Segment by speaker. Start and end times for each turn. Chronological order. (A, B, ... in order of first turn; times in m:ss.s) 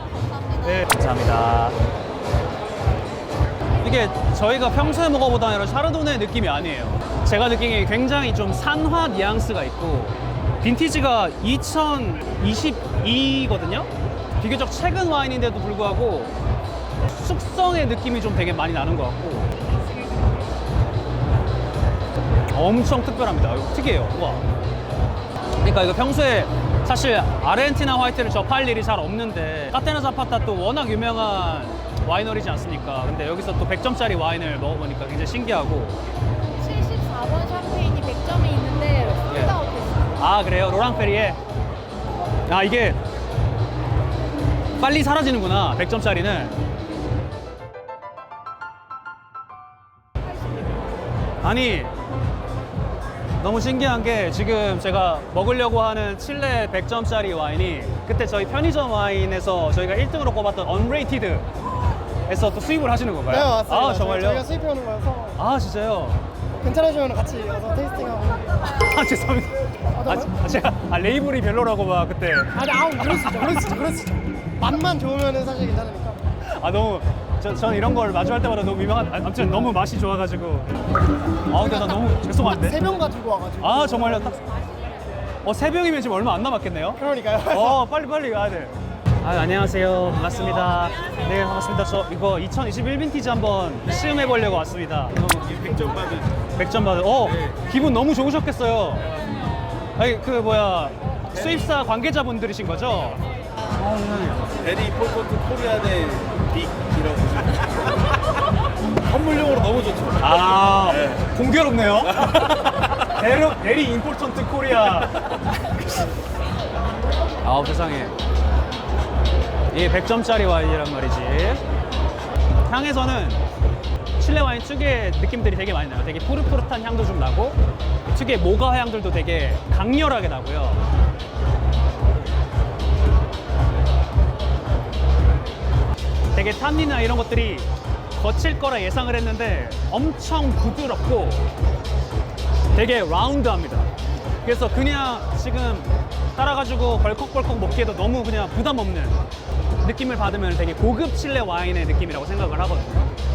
0:00.6-0:01.8 A
0:03.8-0:16.3 A
0:17.1-0:19.5 A
0:22.5-0:24.5 A
0:25.6-0:36.0 A
0:36.6-0:40.0 B
0:39.3-0:39.6 A
0:40.2-0:41.4 A
0:42.5-0:43.0 A
0:44.8-0:46.6 A
0:51.4-0:51.9 A
0:53.4-1:01.5 A
1:02.3-1:04.5 A
1:03.3-1:05.4 C
1:05.4-1:06.2 A
1:06.6-1:08.5 C
1:08.6-1:13.7 A
1:10.0-1:10.3 C
1:12.6-1:16.2 C
1:16.6-1:20.7 A
1:21.5-1:22.9 A
1:21.5-1:24.3 C
1:23.6-1:24.4 A
1:25.4-1:35.4 A
1:27.0-1:27.8 C
1:35.3-1:36.2 D
1:36.6-1:39.1 A
1:40.0-1:44.6 A
1:44.6-1:47.6 D
1:49.1-1:50.2 D
1:50.2-1:56.1 A
1:57.4-1:58.2 A
1:59.7-2:01.6 A
2:02.6-2:03.4 A
2:04.2-2:10.8 A
2:16.3-2:21.5 A
2:22.7-2:23.9 A
2:24.4-2:29.2 A
2:29.8-2:33.1 A